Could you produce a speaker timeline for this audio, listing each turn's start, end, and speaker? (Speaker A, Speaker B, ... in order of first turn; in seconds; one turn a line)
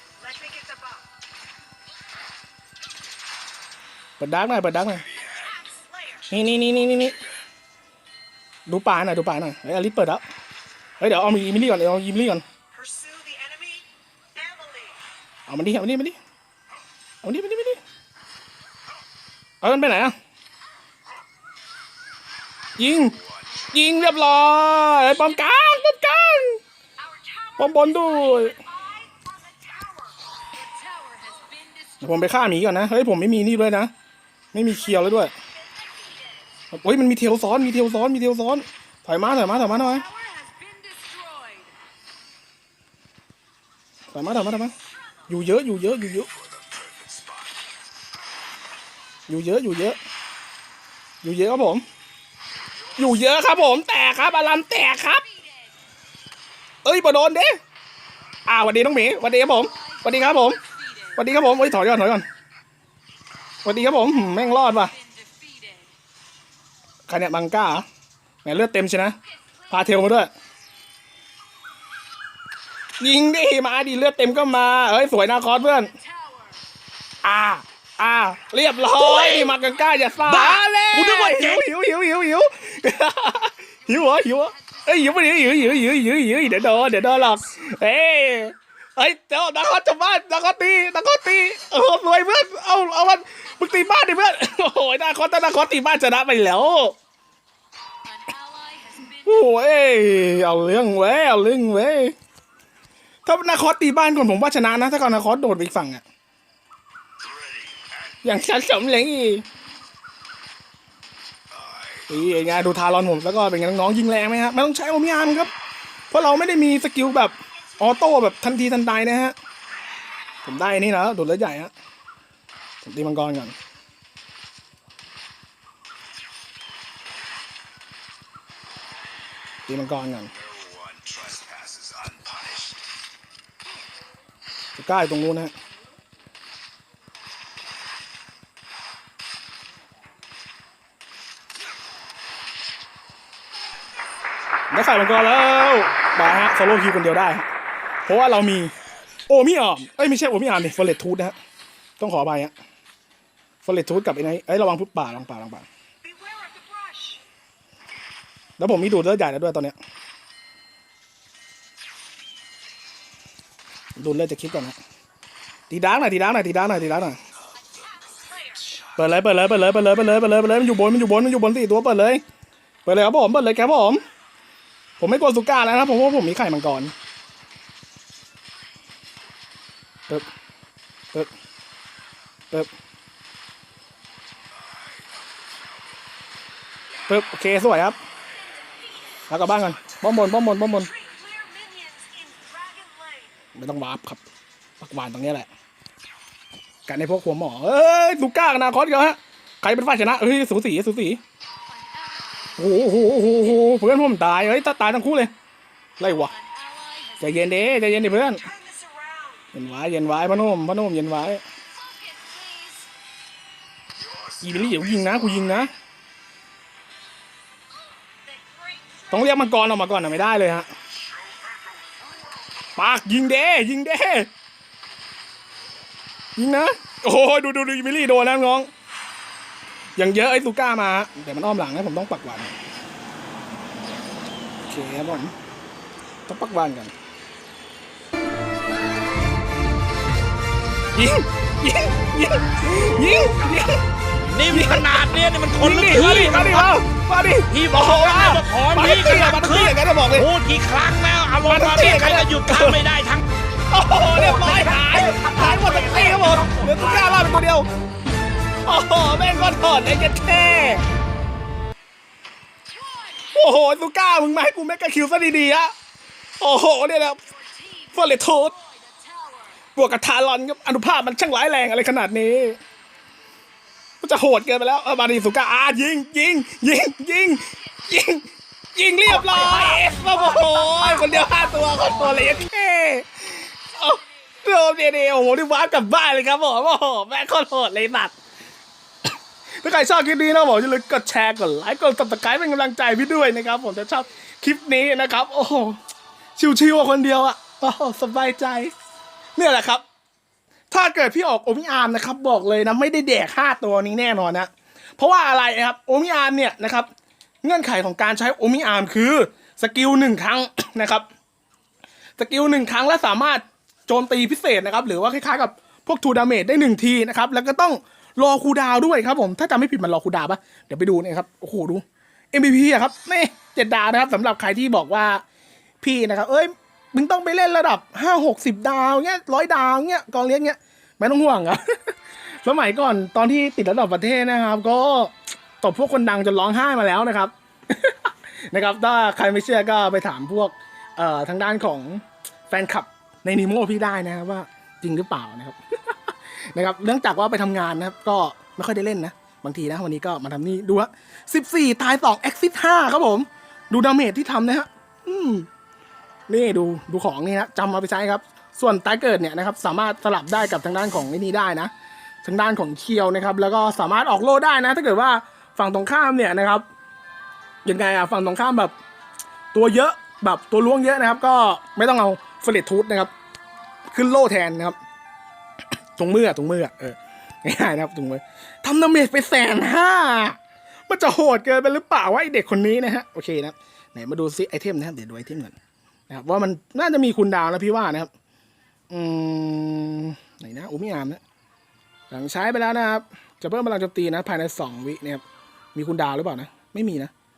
Speaker A: 0.3-1.0
Speaker B: 4.2-5.1
Speaker B: 6.3-7.2
Speaker B: 8.7-10.2
Speaker B: 11.0-12.4
Speaker A: 12.8-13.8
Speaker A: 14.4-14.9
Speaker B: 15.5-16.2
Speaker B: 17.2-17.8
Speaker B: 19.6-20.1
Speaker B: 22.8-23.2
Speaker B: 23.7-26.6
Speaker B: 27.6-28.7
Speaker A: 28.7-30.1
Speaker C: 30.7-31.8
Speaker B: 32.0-33.9
Speaker B: 34.5-35.3
Speaker B: 36.7-40.1
Speaker C: 40.1-41.7
Speaker B: 44.1-44.7
Speaker B: 45.3-46.3
Speaker D: 46.8-47.2
Speaker B: 49.3-50.0
Speaker B: 51.2-51.8
Speaker B: 53.0-55.3
Speaker B: 56.8-57.6
Speaker B: 58.5-60.6
Speaker B: 61.2-62.3
Speaker B: 63.6-65.0
Speaker C: 65.4-65.8
Speaker B: 67.1-67.8
Speaker B: 68.4-69.2
Speaker B: 69.7-70.3
Speaker B: 73.0-76.0
Speaker B: 77.2-97.0
Speaker D: 79.0-79.5
Speaker D: 80.3-81.6
Speaker C: 98.3-99.0
Speaker B: 99.1-102.1
Speaker B: 103.2-106.0
Speaker B: 108.2-109.5
Speaker B: 112.1-115.5
Speaker B: 116.1-119.3
Speaker B: 120.4-121.7
Speaker B: 122.8-123.5
Speaker B: 129.7-130.3
Speaker D: 130.7-132.8
Speaker B: 134.8-135.5
Speaker B: 144.7-147.5
Speaker B: 148.1-148.7
Speaker B: 149.3-151.3
Speaker B: 152.0-152.5
Speaker B: 153.6-155.7
Speaker A: 156.1-157.2
Speaker B: 158.6-159.8
Speaker B: 164.0-164.8
Speaker B: 165.7-167.2
Speaker B: 168.9-172.2
Speaker B: 172.8-174.0
Speaker B: 175.0-176.9
Speaker B: 187.1-188.0
Speaker B: 189.3-190.9
Speaker A: 191.0-193.3
Speaker B: 193.6-194.2
Speaker B: 194.8-195.5
Speaker B: 196.9-201.2
Speaker B: 202.6-205.3
Speaker B: 206.0-206.3
Speaker B: 207.2-208.5
Speaker A: 208.6-209.4
Speaker B: 209.5-211.4
Speaker C: 211.9-212.9
Speaker B: 214.4-215.7
Speaker B: 219.1-220.7
Speaker B: 222.8-224.3
Speaker B: 226.4-228.7
Speaker B: 230.0-232.5
Speaker B: 234.6-235.3
Speaker B: 236.3-236.9
Speaker B: 240.9-243.8
Speaker D: 244.3-246.7
Speaker B: 244.5-250.3
Speaker D: 247.5-253.3
Speaker B: 251.5-252.8
Speaker B: 253.7-257.7
Speaker D: 254.2-257.1
Speaker B: 258.6-260.8
Speaker B: 263.3-265.7
Speaker B: 266.4-267.2
Speaker B: 267.9-268.6
Speaker B: 269.8-272.6
Speaker B: 274.0-288.1
Speaker B: 289.6-295.8
Speaker B: 296.4-298.7
Speaker B: 299.4-299.8
Speaker B: 300.7-306.9
Speaker B: 307.4-311.1
Speaker B: 312.2-325.2
Speaker B: 325.8-345.6
Speaker B: 346.5-355.5
Speaker B: 356.3-361.7
Speaker B: 362.2-366.6
Speaker B: 367.6-368.7
Speaker B: 369.5-373.1
Speaker B: 373.9-374.8
Speaker B: 376.0-380.4
Speaker B: 380.9-385.6
Speaker B: 386.1-388.1
Speaker B: 388.9-391.2
Speaker B: 392.1-395.2
Speaker B: 395.7-397.1